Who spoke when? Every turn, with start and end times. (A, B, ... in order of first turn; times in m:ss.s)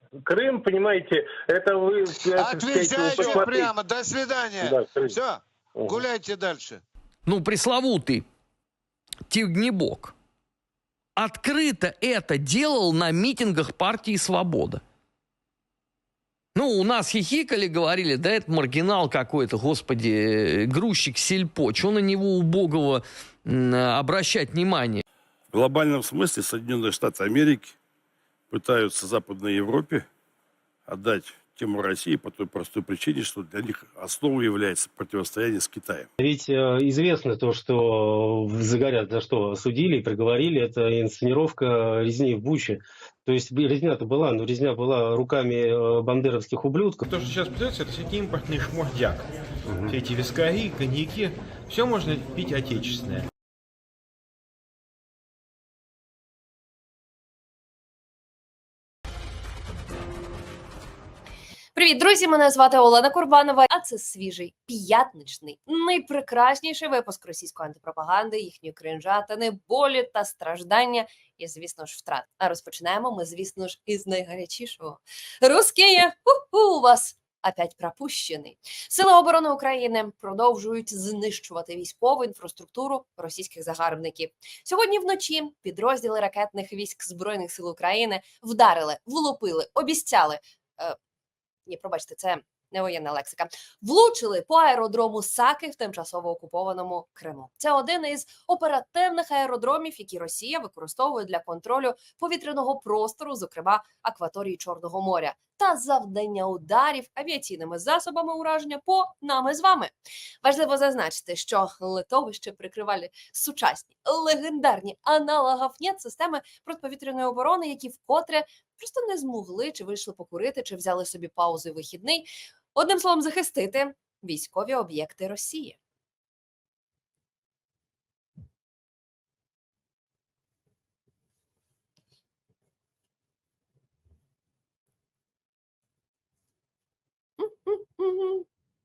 0:00.3-0:03.7 A
0:02.2-0:06.8 B
0:04.6-0:05.1 A
0:07.2-0:08.2 C
0:09.3-0:10.1 C
0:11.2-0:14.8 C
0:16.5-0:25.0 C
0:25.5-0:27.7 D
0:28.5-0:30.0 D
0:30.9-0:36.1 D
0:36.2-0:47.0 E
0:47.1-0:49.3 F
0:49.8-0:53.3 F
1:01.7-1:31.0 G
1:31.7-2:05.8 G
2:17.4-2:18.4 G